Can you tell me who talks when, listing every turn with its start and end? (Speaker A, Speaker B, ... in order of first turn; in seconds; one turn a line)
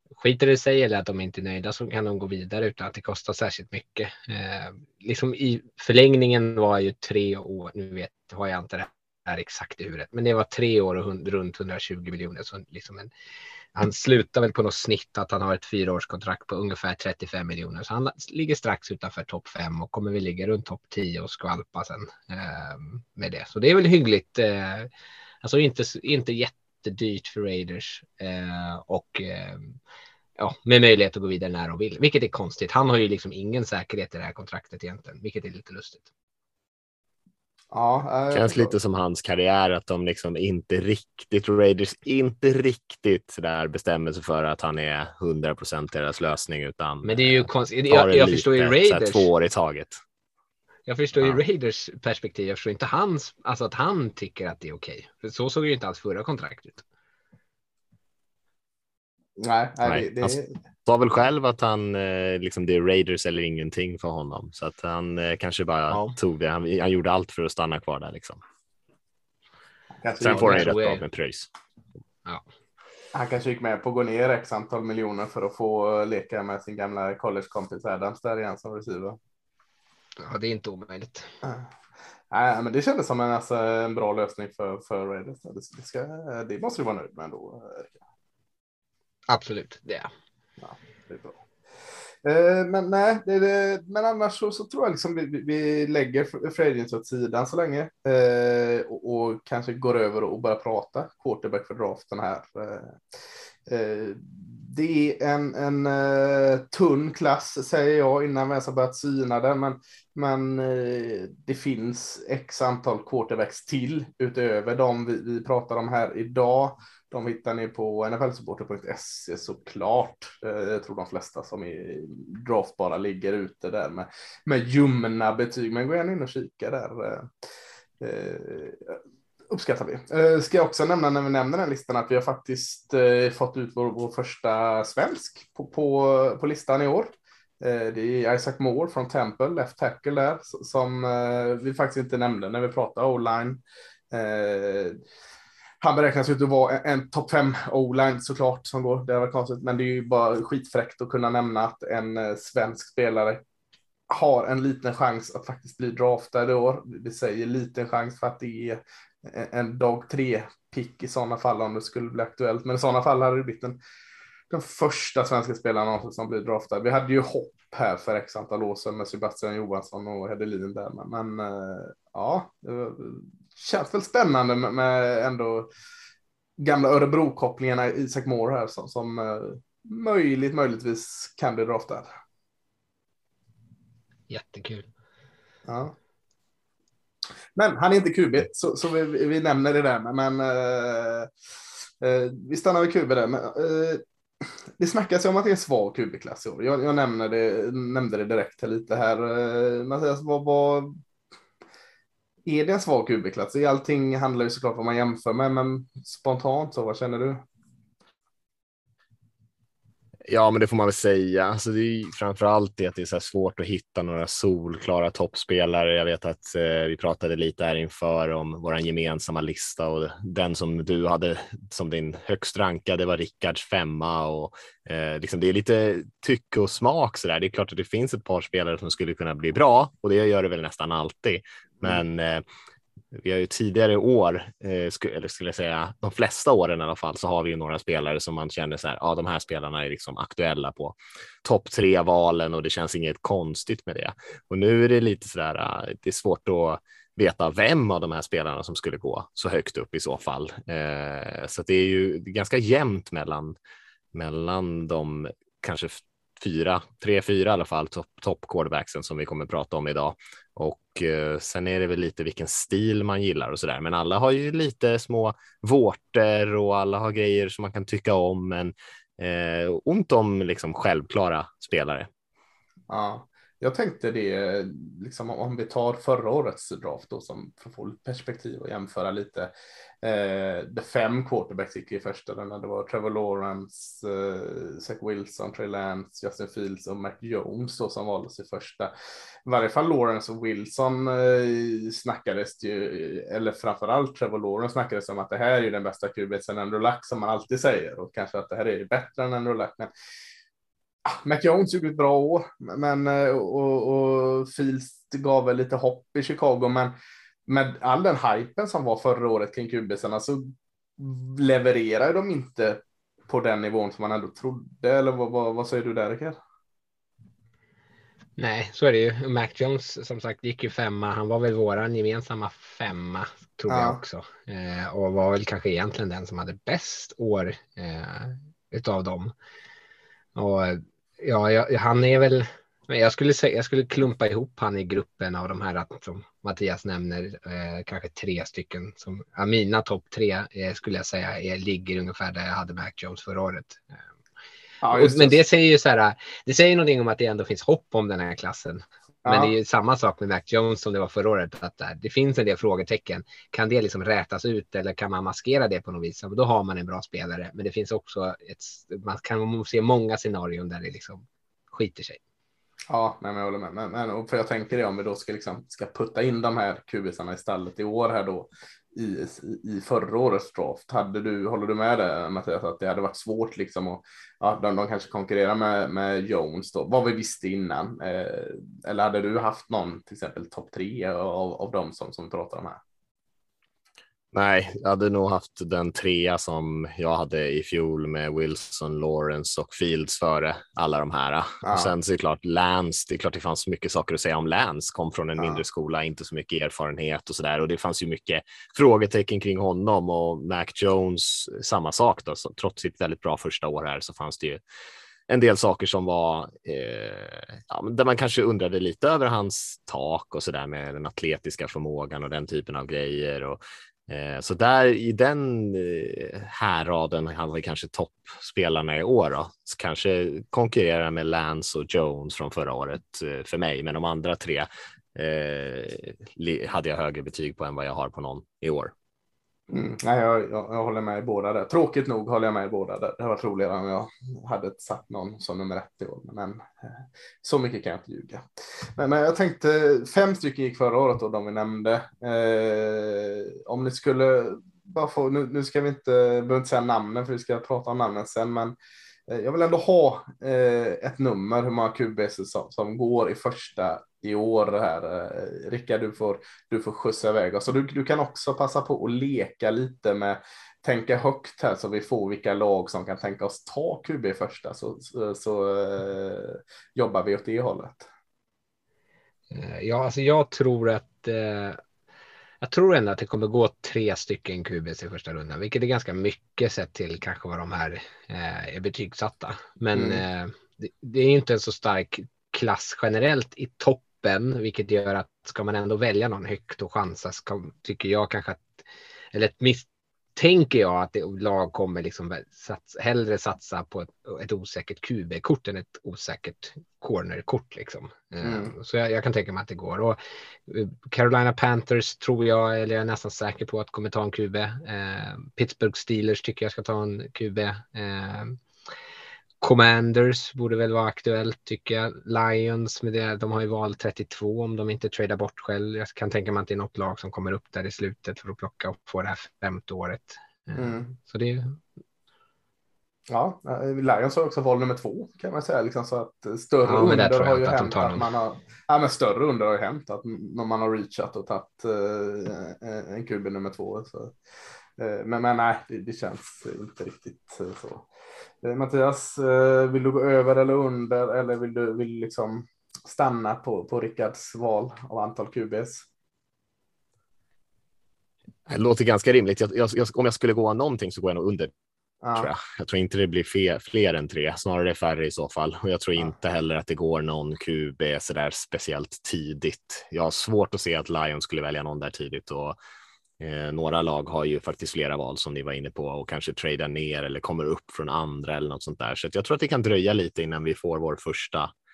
Speaker A: 0.2-13.1
Speaker A: 13.8-24.9
Speaker A: 25.4-29.8
Speaker A: 30.4-36.1
Speaker B: 37.7-38.8
Speaker C: 38.3-50.0
Speaker A: 47.0-49.3
Speaker A: 50.9-56.8
Speaker C: 51.2-51.4
Speaker B: 59.4-60.5
Speaker C: 59.8-68.4
Speaker A: 65.9-66.2
Speaker B: 70.0-70.7
Speaker C: 70.2-71.5
Speaker A: 70.3-71.0
Speaker B: 73.1-79.2
Speaker A: 80.2-81.3
Speaker B: 82.3-88.0
Speaker A: 89.3-90.1
Speaker B: 90.6-91.4
Speaker B: 92.2-127.3
Speaker B: 128.0-129.0
Speaker B: 129.5-143.6
Speaker B: 144.1-145.0
Speaker B: 145.8-153.4
Speaker B: 154.1-163.8
Speaker B: 164.5-175.7
Speaker B: 176.6-182.1
Speaker A: 184.3-184.9
Speaker B: 185.7-185.9
Speaker B: 187.6-191.3
Speaker B: 192.0-201.0
Speaker B: 202.5-207.4
Speaker C: 210.3-232.4
Speaker C: 233.1-253.6
Speaker C: 254.1-272.1
Speaker B: 272.9-279.5
Speaker B: 280.0-288.9
Speaker B: 289.5-299.9
Speaker B: 301.1-306.9
Speaker B: 307.5-316.4
Speaker A: 318.4-329.3
Speaker B: 323.7-324.0
Speaker A: 330.4-344.0
Speaker B: 344.8-345.4
Speaker A: 344.9-362.2
Speaker B: 349.2-349.5
Speaker B: 362.9-382.8
Speaker C: 384.3-404.6
Speaker B: 391.6-391.9
Speaker B: 395.4-395.6
Speaker C: 405.3-428.9
Speaker B: 429.7-438.4
Speaker B: 439.0-448.8
Speaker B: 449.3-468.1
Speaker A: 469.5-471.8
Speaker A: 472.6-508.6
Speaker B: 479.9-480.2
Speaker B: 498.4-498.7
Speaker A: 509.6-521.8
Speaker B: 520.8-521.1
Speaker B: 523.3-534.4
Speaker A: 526.9-528.3
Speaker B: 535.0-538.1
Speaker B: 538.6-546.1
Speaker C: 548.7-551.7
Speaker B: 552.2-552.5
Speaker C: 552.4-562.8
Speaker C: 563.4-571.7